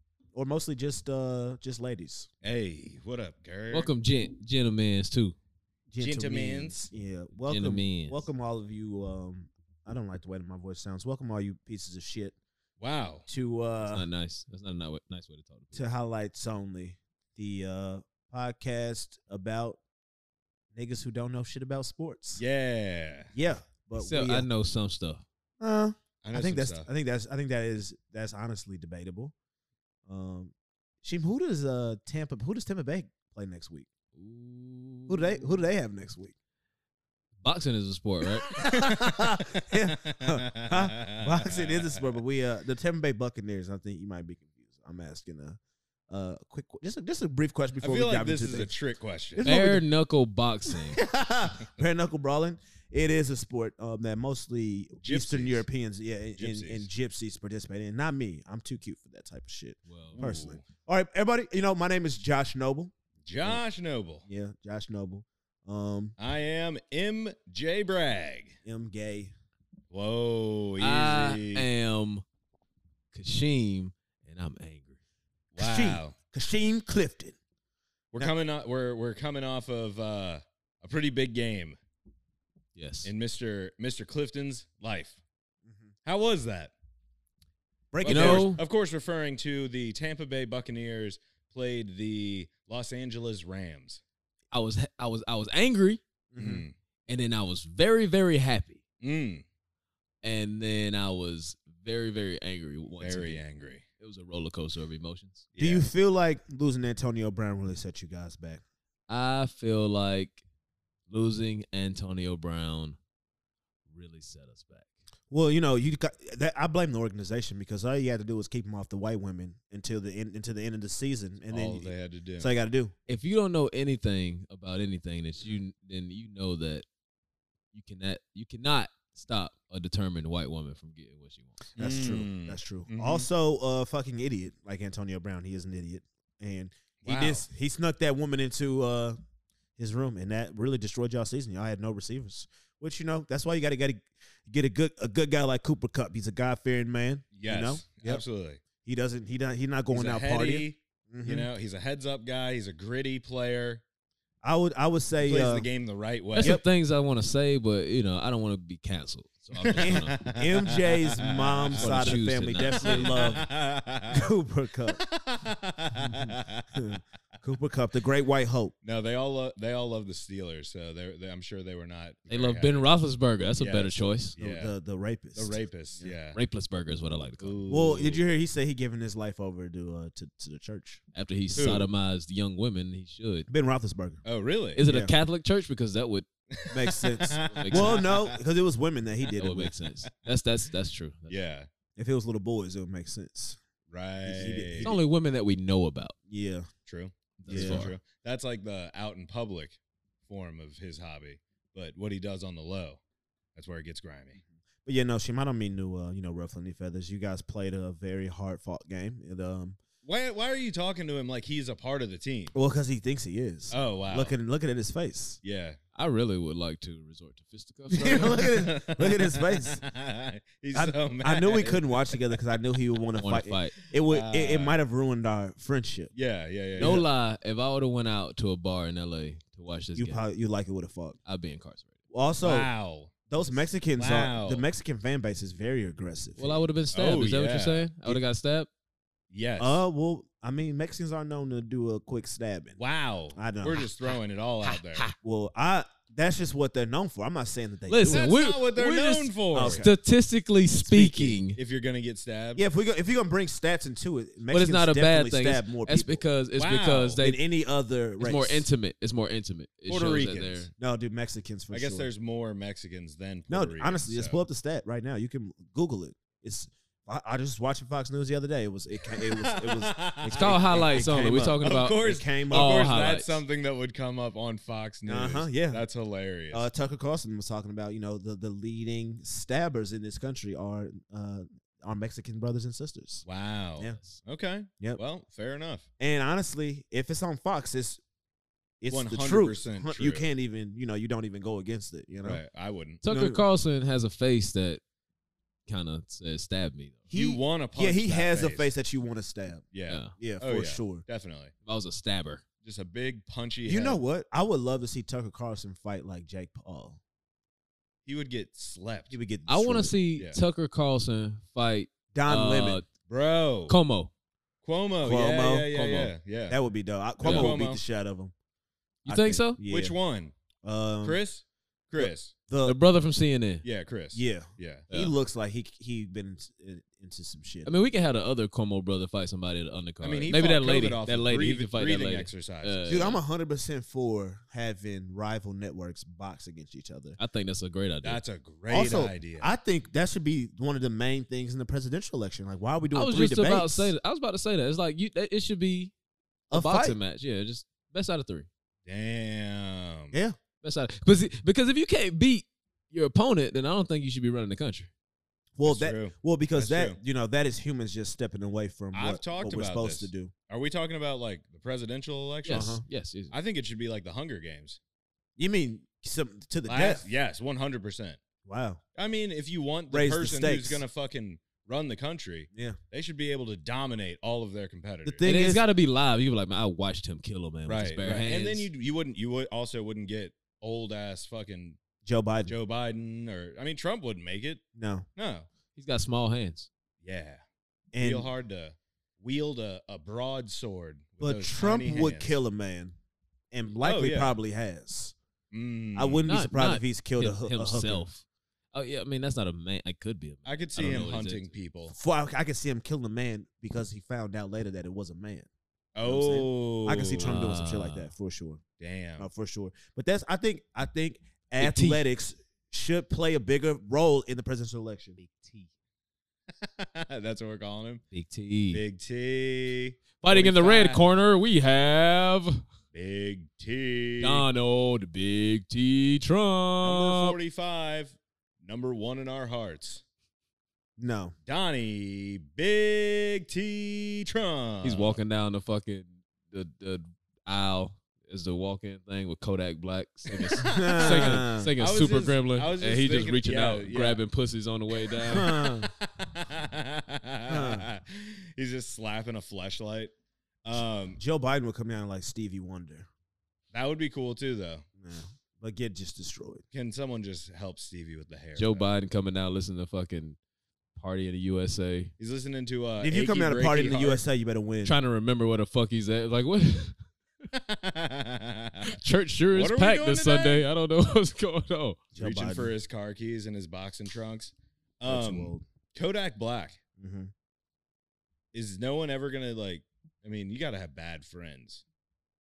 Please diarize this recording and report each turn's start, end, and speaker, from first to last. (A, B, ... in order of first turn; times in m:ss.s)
0:00.3-0:02.3 A
0:02.4-0:03.9 B
0:03.7-0:05.4 C
0:05.9-0:12.4 A
0:06.0-0:06.9 B
0:07.5-0:08.3 C
0:12.8-0:13.3 B
0:13.3-0:14.0 A
0:13.9-0:15.8 C
0:15.7-0:19.8 A
0:20.7-0:22.4 A
0:22.4-0:23.3 B
0:23.3-0:24.5 A
0:24.0-0:25.2 C
0:25.6-0:29.3 A
0:26.2-0:26.9 B
0:30.1-0:33.9 A
0:34.2-0:35.6 C
0:35.1-0:36.3 A
0:37.4-0:38.5 C
0:38.5-0:45.6 A
0:38.8-0:39.2 B
0:40.1-0:42.0 B
0:46.1-0:48.7 A
0:47.8-0:49.5 B
0:49.4-0:49.8 A
0:49.4-0:51.0 C
0:50.7-1:03.6 A
0:55.0-0:55.7 B
0:56.4-0:56.9 B
0:59.9-1:00.2 C
1:00.1-1:00.6 B
1:03.3-1:04.2 B
1:04.3-1:06.1 A
1:06.2-1:08.6 B
1:08.6-1:09.3 A
1:09.9-1:11.7 B
1:10.8-1:12.2 C
1:13.1-1:15.0 C
1:15.6-1:16.1 B
1:15.6-1:17.4 A
1:18.1-1:21.8 B
1:22.8-1:23.1 C
1:23.0-1:25.2 B
1:26.0-1:26.7 B
1:27.9-1:28.6 A
1:28.0-1:34.0 B
1:28.1-1:28.6 C
1:34.5-1:36.0 C
1:36.3-1:36.7 A
1:36.4-1:36.7 B
1:37.1-1:38.8 C
1:39.0-1:39.4 B
1:40.2-1:43.4 C
1:43.0-1:43.8 B
1:44.0-1:45.5 C
1:45.6-1:45.9 B
1:45.6-1:48.6 A
1:49.1-1:50.4 C
1:51.1-1:53.0 C
1:53.9-1:54.9 C
1:55.3-2:02.9 A
2:01.5-2:02.5 B
2:03.1-2:06.9 C
2:07.7-2:11.6 C
2:11.8-2:13.3 B
2:11.8-2:19.2 A
2:17.0-2:17.4 B
2:19.8-2:28.2 A
2:27.3-2:28.6 B
2:28.8-2:31.5 A
2:29.9-2:33.8 B
2:34.4-2:35.7 A
2:35.2-2:36.6 B
2:36.4-2:40.1 C
2:36.4-2:36.6 A
2:39.6-2:42.1 B
2:39.8-2:43.5 A
2:41.8-2:43.3 C
2:42.7-2:44.3 B
2:44.1-2:45.0 A
2:45.0-2:46.7 B
2:46.0-2:48.7 A
2:48.8-2:52.9 B
2:52.3-2:54.4 C
2:53.6-2:54.7 B
2:54.4-2:56.1 A
2:55.4-2:56.4 B
2:56.3-2:58.2 C
2:57.4-2:58.2 B
2:57.7-3:01.0 A
3:01.1-3:03.5 C
3:01.6-3:01.9 B
3:03.5-3:04.2 A
3:04.2-3:04.8 B
3:04.8-3:06.3 C
3:04.8-3:05.1 A
3:06.5-3:08.4 B
3:06.7-3:09.8 A
3:07.3-3:08.1 C
3:09.4-3:11.4 C
3:11.3-3:11.7 B
3:12.0-3:13.6 A
3:13.9-3:14.9 B
3:14.2-3:15.0 A
3:14.8-3:16.2 C
3:16.3-3:16.7 A
3:16.9-3:23.0 B
3:17.4-3:17.9 C
3:17.5-3:17.9 A
3:23.6-3:24.4 B
3:24.8-3:29.8 A
3:30.0-3:32.5 B
3:32.5-3:35.4 A
3:33.7-3:34.4 B
3:35.4-3:35.8 B
3:36.0-3:38.7 C
3:37.9-3:39.8 A
3:38.1-3:42.4 B
3:40.7-3:46.1 A
3:43.2-3:43.7 C
3:44.0-3:44.8 B
3:46.1-3:47.0 B
3:46.8-3:50.2 C
3:46.8-3:47.1 A
3:50.0-3:51.2 A
3:51.2-3:51.9 C
3:52.1-3:52.7 A
3:52.4-3:53.1 B
3:53.3-3:56.6 A
3:54.0-3:54.6 B
3:56.4-3:58.7 C
3:56.9-3:57.9 B
3:59.3-3:59.8 B
3:59.6-4:02.8 A
4:02.8-4:05.1 B
4:03.3-4:03.9 A
4:04.6-4:05.2 C
4:05.2-4:08.2 A
4:07.9-4:11.6 C
4:08.0-4:09.9 B
4:09.5-4:10.0 A
4:10.7-4:11.4 A
4:11.5-4:12.6 B
4:12.6-4:16.2 A
4:14.5-4:17.4 C
4:16.6-4:17.2 B
4:17.2-4:18.7 A
4:18.2-4:20.7 C
4:19.9-4:20.7 B
4:20.8-4:22.1 A
4:21.7-4:24.4 B
4:23.5-4:32.8 A
4:29.1-4:36.6 B
4:30.3-4:33.4 C
4:35.0-4:35.8 A
4:36.5-4:43.2 A
4:43.2-4:45.9 B
4:46.0-4:48.0 A
4:48.8-4:52.4 A
4:48.9-4:50.2 B
4:52.2-4:53.0 B
4:53.0-4:54.8 C
4:53.1-4:53.4 A
4:55.7-4:57.1 C
4:57.1-4:59.6 A
4:57.1-4:58.7 B
4:59.7-5:01.5 B
4:59.9-5:00.1 C
5:00.2-5:01.0 A
5:01.6-5:02.4 C
5:02.6-5:04.0 B
5:03.7-5:07.0 A
5:08.1-5:09.2 B
5:09.1-5:10.0 A
5:09.5-5:12.9 C
5:12.1-5:12.8 A
5:13.1-5:13.8 B
5:13.7-5:14.1 C
5:14.6-5:16.6 B
5:15.0-5:15.7 A
5:15.7-5:16.1 C
5:16.5-5:18.3 A
5:17.2-5:17.8 B
5:17.2-5:17.6 C
5:19.0-5:19.6 C
5:19.1-5:20.0 A
5:19.7-5:20.3 B
5:20.6-5:21.2 A
5:21.0-5:22.3 B
5:22.0-5:22.8 A
5:22.6-5:23.6 C
5:23.6-5:24.9 B
5:24.1-5:27.8 A
5:24.9-5:25.2 C
5:27.7-5:33.2 C
5:30.0-5:33.0 B
5:32.9-5:37.2 A
5:37.2-5:38.2 C
5:38.0-5:39.5 B
5:38.7-5:43.9 A
5:42.9-5:45.9 C
5:46.5-5:47.0 A
5:46.5-5:48.5 C
5:48.9-5:50.2 B
5:50.6-5:54.9 C
5:55.6-6:00.3 A
5:55.6-5:57.0 B
5:58.9-6:02.8 B
6:02.4-6:03.3 C
6:02.5-6:02.8 A
6:03.3-6:04.8 B
6:05.4-6:07.1 A
6:06.7-6:08.2 B
6:08.4-6:08.8 A
6:09.0-6:15.2 B
6:09.9-6:10.8 A
6:12.5-6:12.8 A
6:15.1-6:15.6 A
6:15.2-6:18.7 C
6:17.7-6:21.8 B
6:22.0-6:22.5 A
6:22.5-6:24.6 B
6:24.8-6:25.1 A
6:25.2-6:25.5 B
6:25.8-6:26.7 C
6:27.0-6:27.4 B
6:27.9-6:28.3 A
6:28.0-6:32.4 B
6:31.2-6:33.0 A
6:33.5-6:35.2 A
6:33.8-6:34.4 B
6:35.5-6:36.3 B
6:36.0-6:38.1 A
6:36.3-6:41.5 C
6:40.5-6:42.0 B
6:41.9-6:45.5 A
6:46.0-6:47.4 B
6:46.0-6:48.6 A
6:47.2-6:48.1 C
6:48.8-6:49.3 B
6:49.2-6:55.2 A
6:51.6-6:52.0 C
6:55.2-6:55.7 C
6:56.6-6:58.0 B
6:58.1-6:58.8 C
6:58.7-7:01.0 B
7:00.2-7:02.6 C
7:02.9-7:04.4 B
7:04.2-7:07.4 C
7:06.8-7:10.0 B
7:11.0-7:11.4 A
7:11.5-7:15.2 B
7:14.8-7:25.6 C
7:20.3-7:24.2 B
7:20.6-7:21.7 A
7:25.1-7:30.1 B
7:25.3-7:25.9 A
7:27.5-7:27.9 A
7:30.6-7:31.2 B
7:31.2-7:33.1 A
7:33.7-7:34.8 B
7:35.0-7:36.6 A
7:36.7-7:38.9 B
7:38.6-7:40.4 C
7:41.0-7:42.1 C
7:42.2-7:44.2 B
7:43.0-7:45.0 A
7:44.8-7:47.0 C
7:47.5-7:49.0 B
7:48.8-7:52.0 C
7:49.5-7:50.6 B
7:52.2-7:52.7 A
7:52.2-7:56.8 B
7:55.1-7:55.6 A
7:57.0-7:57.3 A
7:58.5-8:01.8 B